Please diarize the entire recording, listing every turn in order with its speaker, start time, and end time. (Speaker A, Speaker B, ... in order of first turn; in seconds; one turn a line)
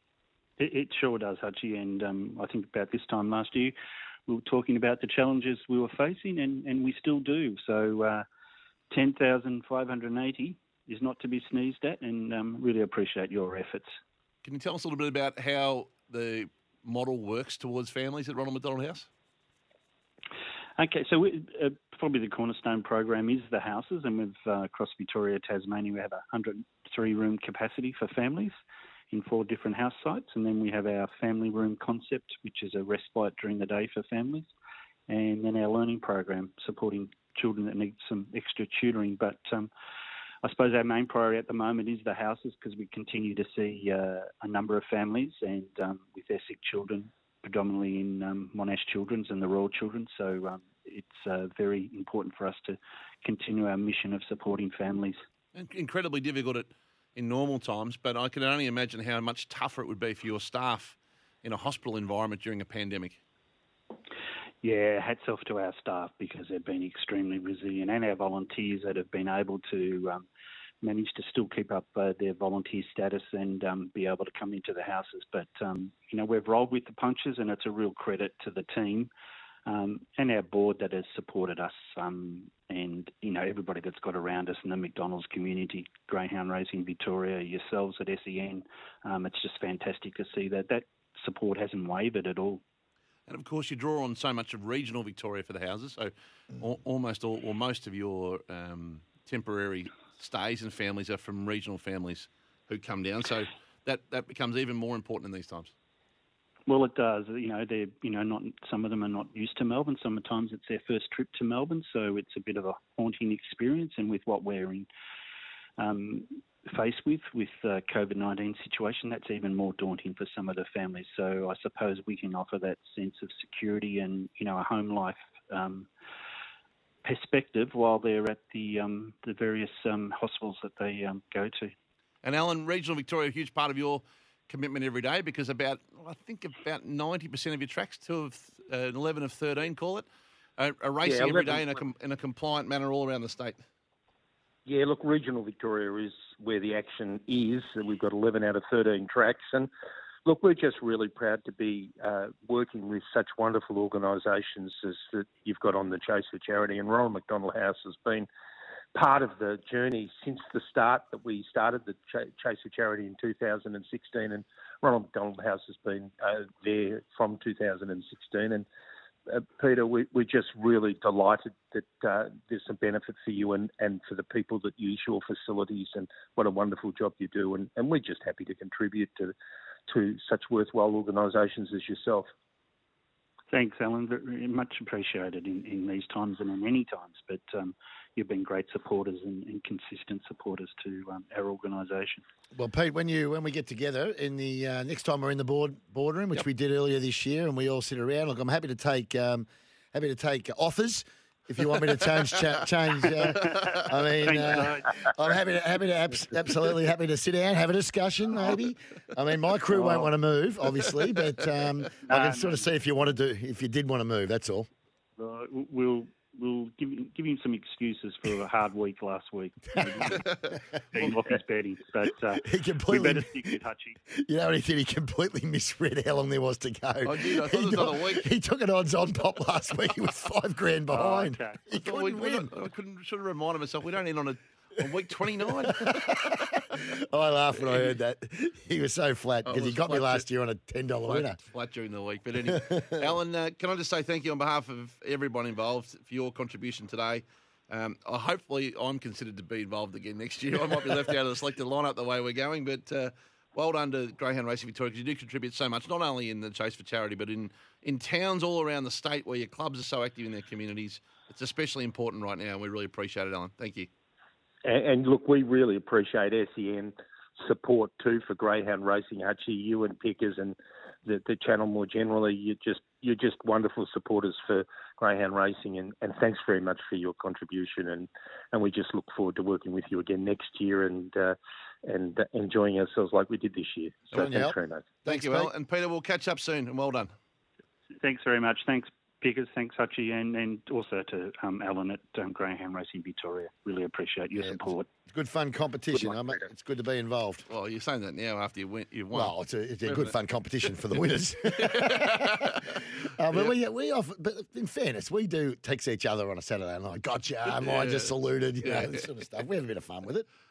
Speaker A: 0.6-3.7
Speaker A: 4.3-8.2
Speaker A: 8.9-13.9
Speaker B: 14.4-19.1
Speaker A: 20.8-28.5
Speaker A: 29.1-34.5
Speaker A: 35.1-39.7
Speaker A: 40.4-55.1
Speaker B: 55.5-63.2
Speaker A: 64.6-70.2
Speaker A: 70.8-79.1
Speaker A: 79.7-92.6
Speaker B: 93.3-105.7
Speaker A: 106.7-114.9
Speaker A: 115.8-125.9
Speaker A: 127.0-131.7
Speaker B: 132.2-140.1
Speaker B: 140.6-143.6
Speaker C: 141.0-141.7
Speaker C: 144.7-149.7
Speaker C: 150.2-158.3
Speaker C: 158.9-168.6
Speaker C: 169.3-179.3
Speaker C: 179.9-182.3
Speaker A: 183.5-192.2
Speaker D: 192.5-214.7
Speaker A: 203.2-205.0
Speaker A: 209.7-210.1
Speaker A: 212.1-212.7
Speaker A: 215.2-224.0
Speaker D: 219.8-220.2
Speaker B: 220.1-221.1
Speaker D: 222.3-223.4
Speaker D: 224.1-232.5
Speaker B: 227.0-228.3
Speaker A: 230.9-231.6
Speaker B: 231.7-236.4
Speaker D: 235.6-241.4
Speaker B: 237.6-237.9
Speaker B: 239.4-240.3
Speaker B: 241.1-263.9
Speaker D: 242.5-243.1
Speaker C: 264.6-284.9
Speaker D: 284.1-285.5
Speaker B: 285.0-287.1
Speaker A: 288.0-294.9
Speaker D: 294.4-297.4
Speaker B: 297.5-299.3
Speaker D: 299.1-310.2
Speaker B: 299.8-300.1
Speaker B: 300.6-303.5
Speaker B: 307.5-309.0